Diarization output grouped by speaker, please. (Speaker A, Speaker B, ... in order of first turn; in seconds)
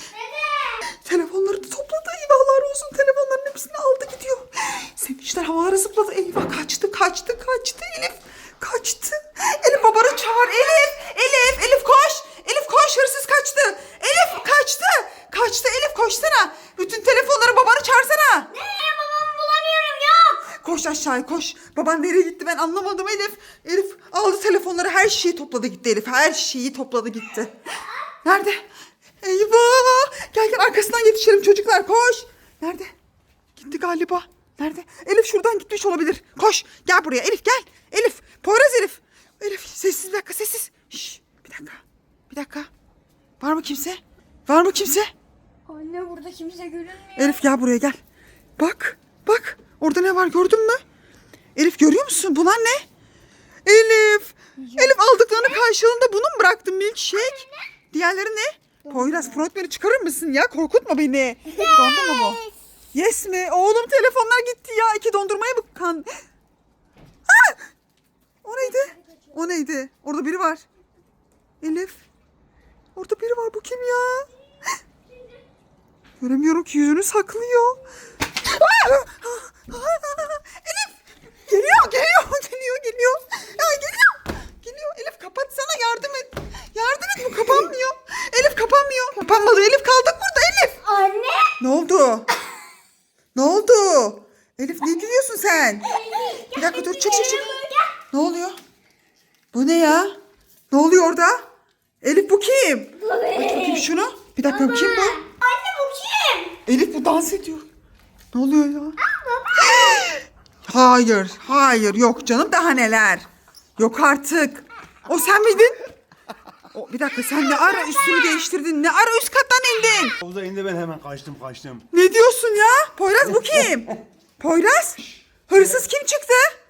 Speaker A: 0.1-0.9, 18.5-20.5, 45.7-47.5, 54.6-55.6, 57.1-57.6, 58.9-59.5, 61.5-62.5, 68.6-69.6, 87.4-87.7, 89.2-89.5, 90.8-91.6, 95.7-97.9, 103.0-103.9, 104.4-106.6, 109.1-110.0, 117.5-118.5
Speaker B: 0.8-18.5, 20.6-27.6, 28.2-28.6, 29.2-32.9, 33.6-42.7, 43.4-45.1, 47.2-48.0, 48.6-50.8, 51.5-52.9, 53.6-66.1, 67.3-67.7, 68.4-70.7, 71.6-72.0, 73.0-74.3, 76.2-90.8, 91.6-92.3, 93.3-98.6, 99.5-100.2, 100.7-101.4, 102.0-105.2, 106.7-107.7, 108.3-109.0, 109.5-115.9, 116.7-120.2, 121.9-126.5
Speaker C: 120.2-121.9, 123.3-123.9, 125.5-125.8